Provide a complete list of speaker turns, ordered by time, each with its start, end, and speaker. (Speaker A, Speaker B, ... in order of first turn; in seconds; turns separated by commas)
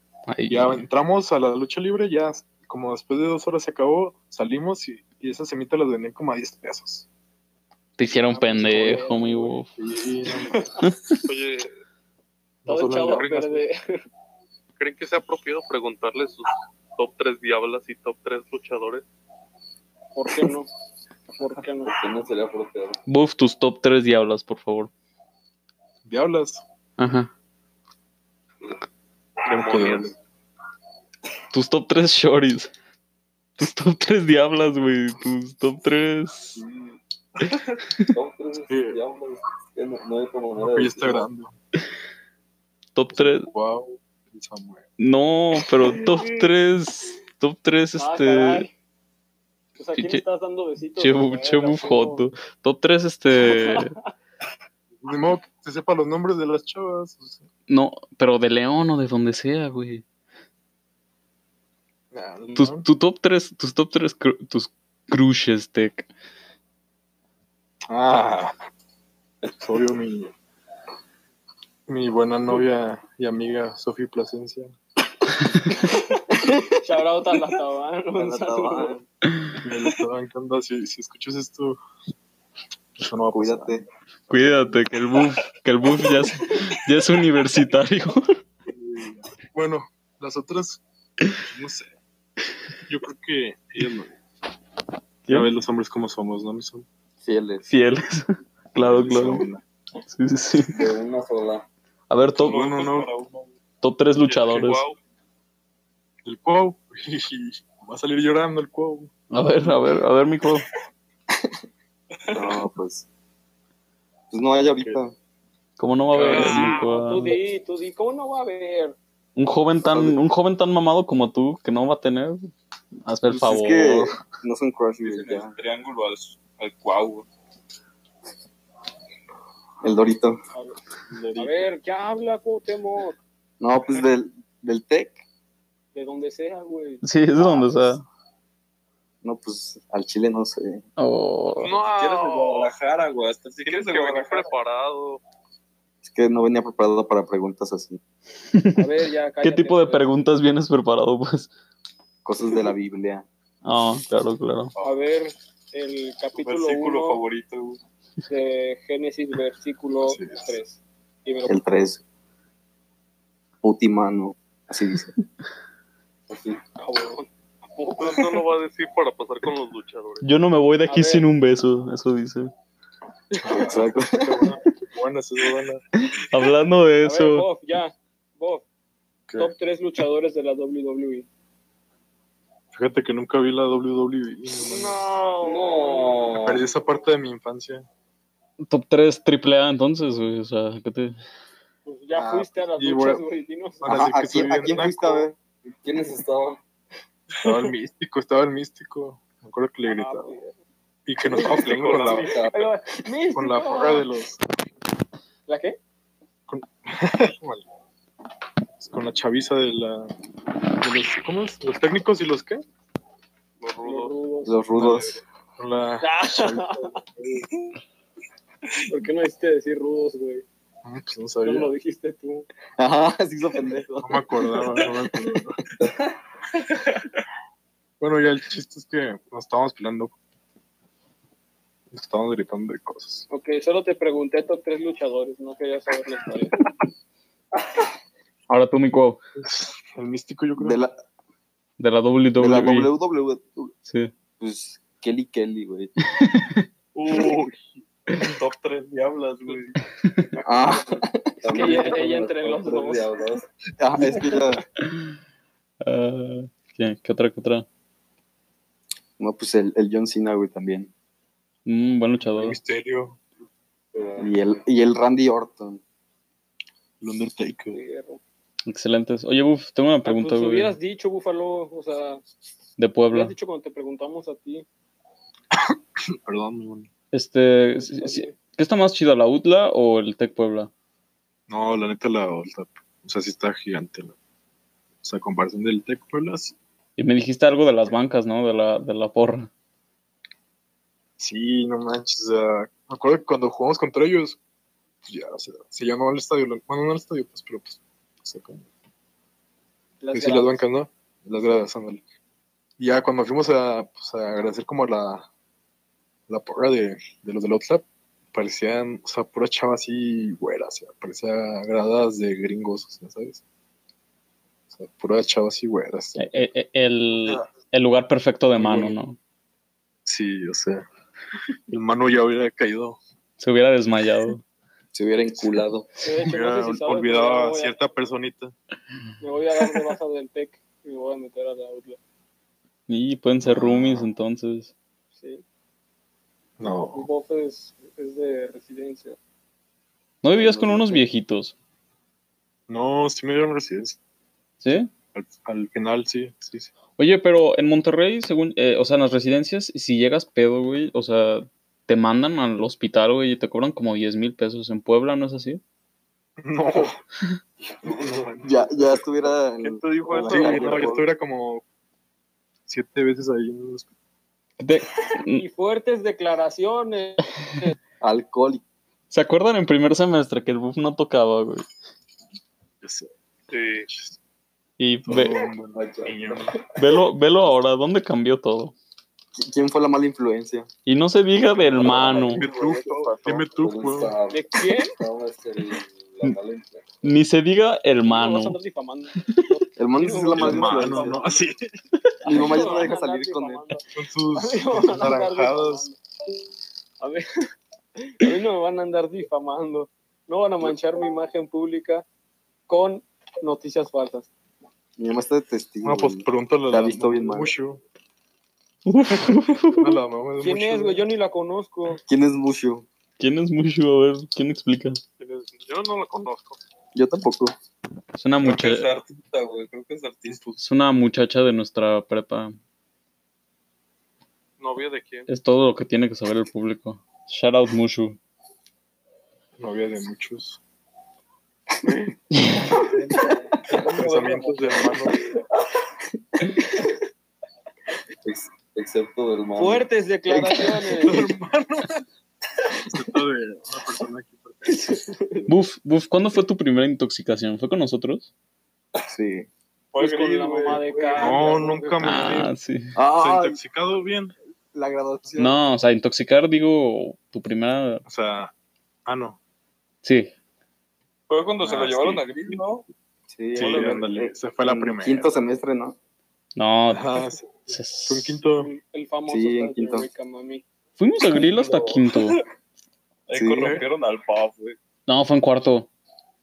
Speaker A: 0.3-0.8, Speaker B: 0.5-7.0, Speaker A: 8.0-9.7, Speaker B: 8.3-9.1, Speaker C: 8.3-9.6, Speaker B: 9.8-10.9, Speaker A: 10.8-11.2, Speaker D: 11.2-11.7, Speaker B: 12.6-13.6, Speaker C: 12.7-13.9, Speaker D: 13.1-13.4, Speaker D: 14.8-19.0, Speaker C: 20.1-20.7, Speaker C: 21.3-21.9, Speaker E: 21.8-23.0, Speaker A: 23.1-24.9, Speaker B: 26.1-26.6, Speaker A: 27.0-27.3, Speaker D: 29.4-30.1, Speaker B: 29.5-30.1, Speaker A: 31.5-32.7, Speaker A: 33.6-36.6, Speaker E: 36.5-37.0, Speaker E: 38.1-41.3, Speaker B: 38.7-39.0, Speaker B: 40.6-41.5, Speaker A: 42.9-43.5, Speaker B: 43.1-44.8, Speaker A: 45.0-48.7, Speaker C: 48.0-48.7, Speaker C: 49.8-52.2, Speaker A: 50.0-50.2, Speaker A: 51.0-53.9, Speaker C: 53.4-54.0, Speaker B: 55.0-57.4, Speaker A: 57.7-60.0, Speaker B: 62.1-62.9, Speaker A: 62.5-66.1, Speaker B: 67.9-68.5, Speaker B: 69.6-70.3, Speaker B: 71.9-74.7, Speaker F: 76.3-76.7, Speaker C: 76.8-79.0, Speaker F: 78.2-79.0, Speaker B: 79.6-81.8, Speaker B: 83.0-84.8, Speaker F: 83.3-83.8, Speaker A: 84.3-88.3, Speaker B: 88.7-90.8, Speaker B: 91.3-91.9, Speaker B: 92.9-94.2, Speaker B: 95.3-96.8, Speaker F: 97.2-97.7, Speaker A: 97.7-99.5, Speaker B: 98.8-99.5, Speaker F: 98.8-99.6, Speaker A: 100.1-100.9, Speaker E: 100.7-101.7, Speaker A: 102.1-102.6, Speaker G: 102.4-103.5, Speaker B: 102.4-103.1, Speaker A: 103.8-104.8, Speaker D: 104.2-105.0, Speaker B: 106.2-109.1, Speaker A: 109.3-110.7, Speaker G: 112.3-112.6, Speaker F: 112.3-113.0, Speaker F: 114.3-115.1, Speaker A: 115.8-117.4, Speaker B: 116.1-116.7, Speaker D: 116.2-116.9, Speaker C: 116.3-119.0, Speaker A: 119.4-122.5, Speaker F: 119.8-120.2, Speaker A: 123.0-124.2, Speaker F: 123.3-125.5, Speaker G: 125.0-127.3, Speaker F: 129.8-130.4, Speaker C: 130.5-130.8, Speaker G: 131.1-131.7, Speaker C: 131.3-133.2, Speaker F: 133.6-135.2, Speaker C: 135.9-137.7, Speaker A: 137.0-138.0, Speaker F: 139.2-140.8, Speaker A: 141.0-141.7, Speaker D: 141.6-142.7, Speaker G: 141.8-144.5, Speaker D: 143.6-145.2, Speaker F: 146.0-148.0, Speaker A: 148.5-148.8, Speaker C: 148.8-150.1, Speaker A: 149.4-151.5, Speaker F: 152.2-153.2, Speaker A: 153.6-154.7, Speaker C: 154.8-157.2, Speaker G: 156.3-157.8, Speaker C: 158.3-161.6, Speaker B: 160.0-160.5, Speaker F: 161.4-162.0, Speaker F: 163.6-165.1, Speaker E: 166.3-166.6, Speaker C: 166.8-168.4, Speaker D: 168.0-170.2, Speaker A: 170.2-172.5, Speaker C: 170.9-171.2, Speaker B: 173.4-175.8, Speaker F: 173.6-174.6, Speaker A: 176.1-177.4, Speaker C: 177.0-178.6, Speaker C: 179.4-181.3, Speaker B: 182.7-185.0, Speaker C: 184.6-186.1, Speaker E: 185.4-186.7, Speaker B: 186.4-187.9, Speaker A: 188.6-191.2, Speaker C: 191.8-193.8, Speaker B: 192.2-193.2, Speaker B: 193.8-195.3, Speaker F: 193.8-195.3, Speaker E: 195.7-196.6, Speaker B: 197.4-200.3, Speaker C: 199.8-200.6, Speaker B: 201.1-202.3, Speaker C: 201.2-204.1, Speaker E: 201.6-202.6, Speaker D: 201.7-202.2, Speaker B: 203.3-204.4, Speaker C: 205.5-205.8, Speaker B: 206.5-207.6, Speaker B: 208.8-210.1, Speaker B: 210.8-212.6, Speaker D: 213.6-214.1, Speaker C: 213.8-214.6, Speaker F: 214.4-215.2, Speaker B: 214.8-216.9, Speaker C: 216.0-217.0, Speaker C: 218.9-220.4, Speaker B: 220.8-221.7, Speaker C: 221.4-222.5, Speaker F: 222.8-224.2, Speaker B: 224.0-225.6, Speaker B: 228.0-230.1, Speaker B: 231.9-233.3, Speaker C: 233.3-236.5, Speaker A: 238.5-239.2, Speaker B: 239.4-240.8, Speaker F: 240.6-241.0, Speaker A: 241.8-242.9, Speaker F: 242.4-243.7, Speaker A: 243.8-244.1, Speaker F: 244.4-245.9, Speaker A: 246.1-246.7, Speaker G: 246.9-247.4, Speaker G: 248.2-249.8, Speaker F: 250.4-251.4, Speaker E: 251.4-253.5, Speaker C: 251.5-253.1, Speaker F: 253.8-254.6, Speaker A: 254.8-255.1, Speaker A: 255.8-257.6, Speaker F: 259.2-260.9, Speaker A: 261.6-262.6, Speaker B: 262.2-263.2, Speaker E: 263.9-264.4, Speaker F: 264.2-265.8, Speaker B: 267.0-267.8, Speaker C: 267.7-268.2, Speaker A: 268.7-270.8, Speaker C: 270.0-272.2, Speaker A: 272.8-273.3, Speaker C: 273.1-274.6, Speaker B: 275.5-276.9, Speaker A: 277.1-280.7, Speaker C: 277.8-278.3, Speaker B: 281.5-284.1, Speaker B: 285.0-286.5, Speaker A: 287.0-289.5, Speaker B: 291.2-294.4, Speaker B: 295.0-298.6, Speaker C: 300.0-300.6, Speaker B: 300.1-302.0, Speaker B: 302.8-305.3, Speaker B: 306.3-313.4, Speaker B: 314.7-316.4, Speaker A: 316.2-319.2, Speaker B: 318.6-319.0, Speaker B: 320.1-320.8, Speaker B: 321.7-323.0, Speaker A: 323.4-324.4, Speaker F: 324.9-325.9, Speaker C: 326.0-327.7, Speaker B: 326.2-328.5, Speaker C: 329.2-332.0, Speaker A: 332.9-334.7, Speaker B: 333.4-334.1, Speaker C: 335.1-335.4, Speaker B: 336.6-337.1, Speaker C: 336.9-339.2, Speaker A: 340.2-341.5, Speaker F: 340.3-341.0, Speaker B: 342.7-344.0, Speaker A: 344.6-344.9, Speaker B: 345.1-346.7, Speaker A: 347.0-355.6, Speaker B: 356.4-357.0, Speaker B: 357.6-359.1, Speaker F: 358.4-361.0, Speaker G: 359.6-361.1, Speaker B: 360.1-361.6, Speaker B: 362.7-363.9, Speaker A: 364.6-365.4, Speaker C: 365.3-367.7, Speaker F: 368.0-368.6, Speaker A: 369.1-371.6, Speaker B: 372.8-373.1, Speaker D: 373.5-373.9, Speaker B: 373.9-374.1, Speaker A: 374.8-375.5, Speaker B: 375.1-376.6, Speaker E: 375.7-376.6, Speaker A: 376.8-378.7, Speaker F: 379.3-380.7, Speaker A: 380.9-382.4, Speaker E: 381.6-387.0, Speaker B: 381.8-384.2, Speaker C: 384.3-384.9, Speaker A: 387.0-388.6, Speaker C: 388.0-391.5, Speaker F: 389.8-391.2, Speaker B: 390.4-391.7, Speaker F: 392.2-393.6, Speaker C: 392.2-396.0, Speaker B: 393.9-395.9, Speaker C: 397.0-397.3, Speaker C: 398.0-402.0, Speaker C: 402.7-404.3, Speaker F: 405.0-407.5, Speaker B: 405.8-407.8, Speaker A: 408.9-410.0, Speaker B: 409.1-411.0, Speaker C: 410.4-412.0, Speaker F: 412.1-412.9, Speaker A: 413.2-415.0, Speaker D: 415.2-416.6, Speaker F: 416.9-417.5, Speaker A: 418.1-418.9, Speaker G: 418.4-420.6, Speaker A: 420.6-422.5, Speaker D: 424.6-425.3, Speaker A: 425.3-428.2, Speaker B: 429.6-430.6, Speaker A: 432.3-432.6, Speaker B: 433.7-435.2, Speaker G: 433.7-434.9, Speaker E: 438.2-439.9, Speaker C: 439.6-441.3, Speaker F: 440.3-440.6, Speaker B: 441.0-442.0, Speaker B: 442.9-444.8, Speaker C: 444.6-445.5, Speaker A: 445.5-448.3, Speaker F: 449.1-449.5, Speaker G: 449.9-451.7, Speaker C: 450.0-452.3, Speaker B: 451.1-452.5, Speaker A: 452.0-452.9, Speaker F: 452.9-453.6, Speaker B: 453.1-454.3, Speaker F: 454.7-455.6, Speaker A: 455.4-458.0, Speaker B: 458.1-458.5, Speaker B: 459.1-459.4, Speaker A: 460.0-460.3, Speaker G: 461.3-462.9, Speaker B: 461.6-462.3, Speaker F: 463.3-465.9, Speaker B: 463.5-465.4, Speaker G: 463.6-464.0, Speaker A: 466.6-468.4, Speaker B: 466.9-468.7, Speaker C: 468.6-470.6, Speaker F: 469.3-470.1, Speaker A: 471.0-472.4, Speaker G: 471.3-472.4, Speaker G: 473.3-474.8, Speaker F: 473.3-473.8, Speaker B: 473.6-473.9, Speaker A: 475.1-475.9